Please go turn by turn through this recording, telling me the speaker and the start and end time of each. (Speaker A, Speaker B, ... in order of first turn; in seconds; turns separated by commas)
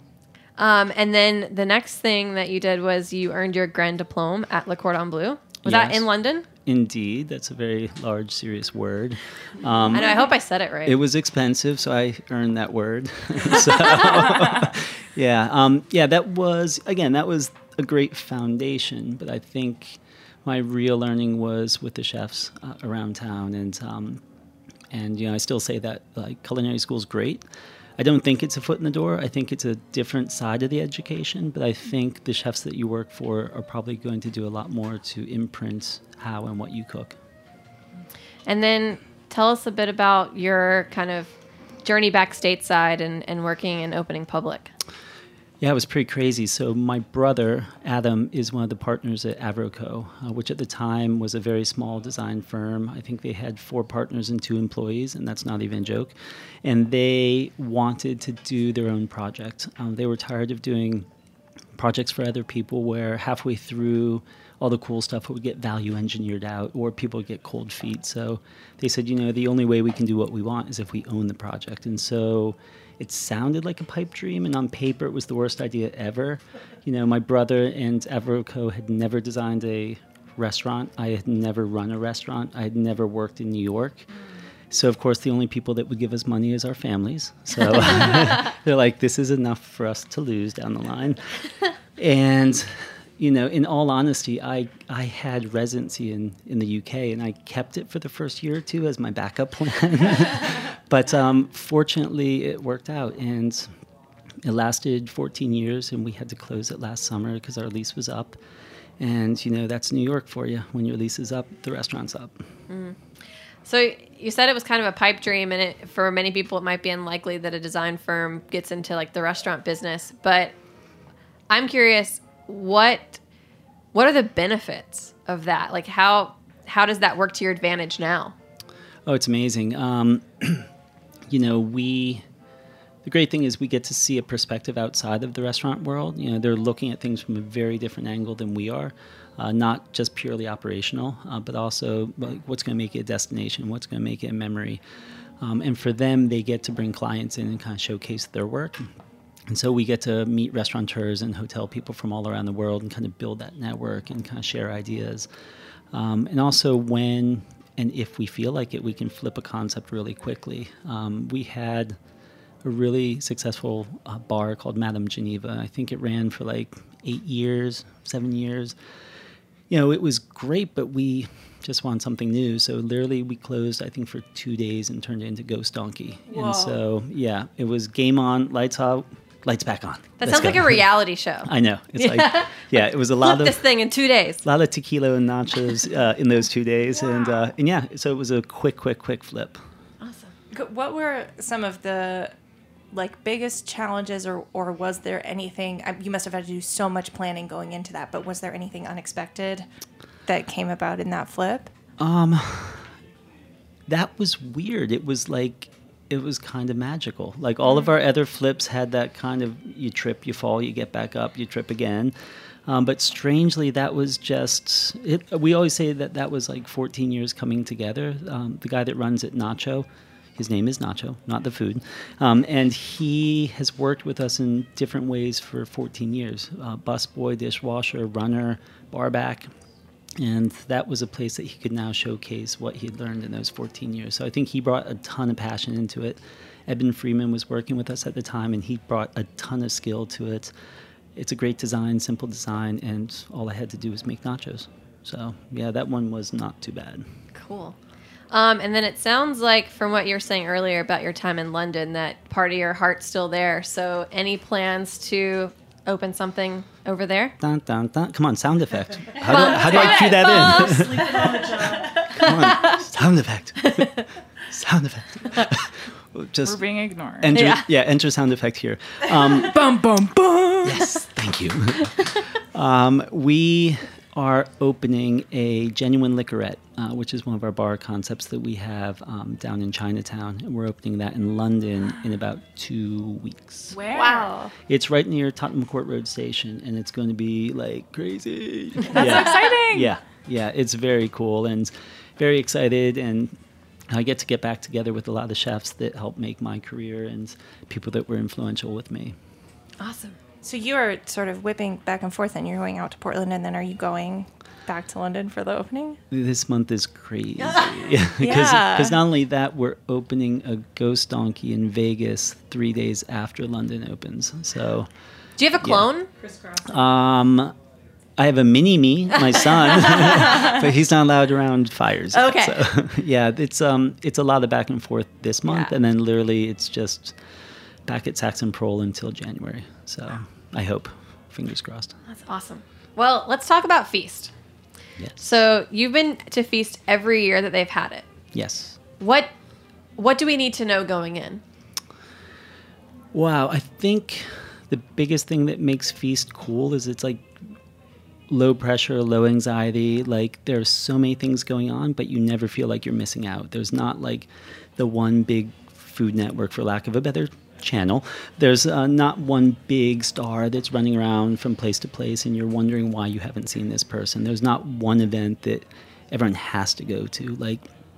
Speaker A: 0.6-6.5, Speaker B: 5.6-6.1, Speaker B: 6.7-10.3, Speaker A: 9.9-11.0, Speaker B: 10.8-24.2, Speaker B: 24.9-27.4, Speaker B: 28.0-37.2, Speaker A: 38.5-44.7, Speaker B: 45.6-61.1, Speaker B: 61.7-84.1, Speaker B: 84.7-91.3, Speaker B: 92.0-103.7, Speaker B: 104.4-108.4, Speaker B: 109.0-112.4, Speaker A: 112.7-113.0, Speaker A: 113.6-120.5, Speaker A: 121.5-123.2, Speaker A: 123.9-128.3, Speaker B: 129.1-130.7, Speaker B: 131.3-132.2, Speaker B: 133.0-144.8, Speaker B: 145.4-148.9, Speaker B: 149.5-155.3, Speaker B: 155.9-162.0, Speaker B: 162.6-168.8, Speaker B: 169.7-180.9, Speaker A: 180.2-184.4, Speaker B: 181.4-183.7, Speaker B: 184.4-189.6, Speaker A: 190.0-190.3, Speaker C: 190.5-192.3, Speaker C: 192.9-199.7, Speaker C: 200.3-201.7, Speaker B: 202.0-202.9, Speaker B: 203.9-212.1, Speaker B: 212.7-229.5, Speaker B: 230.2-240.5, Speaker B: 241.2-247.0, Speaker A: 247.3-247.8, Speaker A: 248.3-257.3, Speaker B: 257.4-261.5, Speaker A: 259.2-261.4, Speaker D: 260.2-262.1, Speaker B: 262.1-266.6, Speaker A: 262.1-262.8, Speaker A: 263.6-263.9, Speaker E: 266.4-267.3, Speaker B: 267.2-269.6, Speaker A: 267.3-267.6, Speaker E: 269.5-270.8, Speaker B: 270.6-283.9, Speaker E: 283.7-284.2, Speaker C: 283.9-284.5, Speaker B: 284.7-293.3, Speaker E: 288.9-289.9, Speaker B: 293.9-299.1, Speaker A: 299.8-300.2, Speaker C: 300.4-306.0, Speaker B: 306.1-314.9, Speaker C: 308.2-309.0, Speaker A: 315.4-316.1, Speaker B: 315.6-315.9, Speaker D: 316.2-316.8, Speaker B: 316.6-317.5, Speaker B: 318.2-327.2, Speaker A: 319.3-320.3, Speaker A: 322.1-322.6, Speaker A: 325.5-325.7, Speaker B: 327.9-331.9, Speaker A: 332.1-334.3, Speaker B: 335.0-335.3, Speaker A: 335.2-338.1, Speaker B: 338.3-338.8, Speaker A: 339.0-339.3, Speaker A: 340.0-341.4, Speaker B: 343.1-347.3, Speaker B: 348.3-367.6